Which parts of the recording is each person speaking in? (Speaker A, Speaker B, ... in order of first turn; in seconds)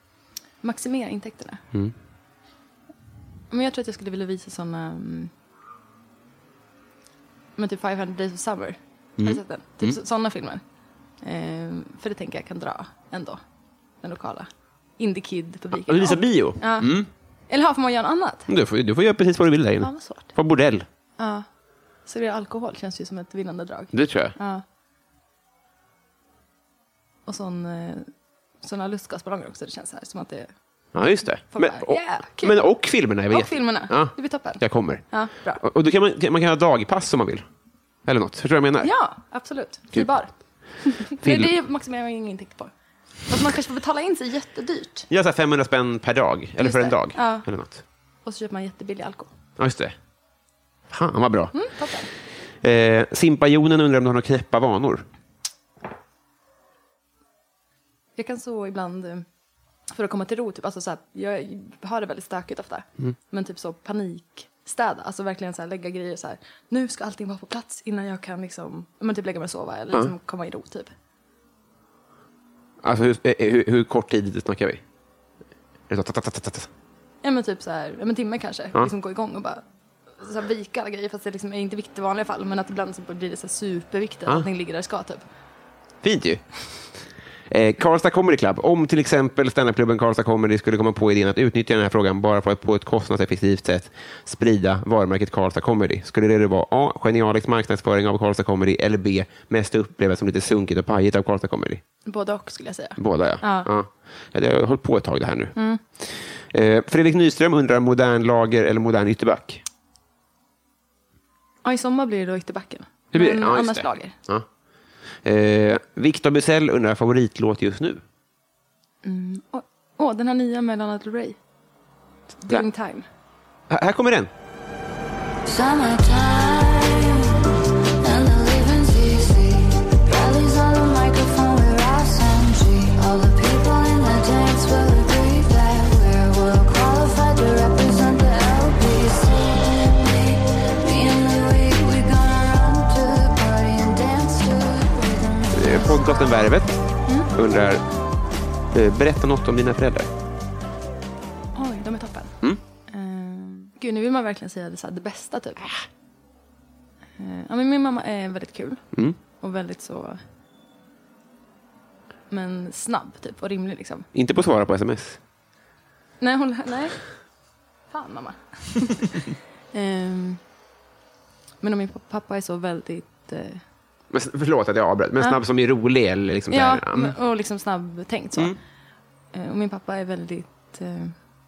Speaker A: 0.6-1.6, 3.5-5.3, 7.6-10.6, 11.2-13.4, 14.0-18.5, 19.8-20.3, 21.2-21.4, 22.1-24.6, 27.3-28.1, 28.6-30.5, 31.5-32.6, 33.3-35.6, 38.8-42.7, 43.3-45.1, 46.6-47.5, 48.2-49.3, 51.5-52.1, 58.2-59.3, 59.9-70.9, 77.2-79.6, 80.2-85.2, 102.0-103.7, 111.6-114.1, 119.0-121.4, 122.4-123.0, 151.6-152.3, 152.9-155.7, 157.2-158.8, 159.4-160.2, 162.3-164.1, 166.2-167.0, 167.9-170.4, 171.6-173.6, 176.5-178.6, 179.3-181.1
Speaker B: 9.2-10.0, 15.7-17.1, 18.5-20.9, 23.9-24.4, 30.9-37.5, 38.0-38.9, 41.2-41.5, 45.1-47.8, 49.6-49.9, 50.9-51.7, 52.6-55.1, 72.8-74.8, 75.9-76.7, 86.0-101.8, 103.0-109.6, 113.1-114.5, 115.2-118.0, 123.7-124.3, 145.5-146.8, 147.3-147.8, 148.7-150.1, 164.1-165.2, 174.1-177.2
Speaker C: 125.5-127.5, 128.0-146.0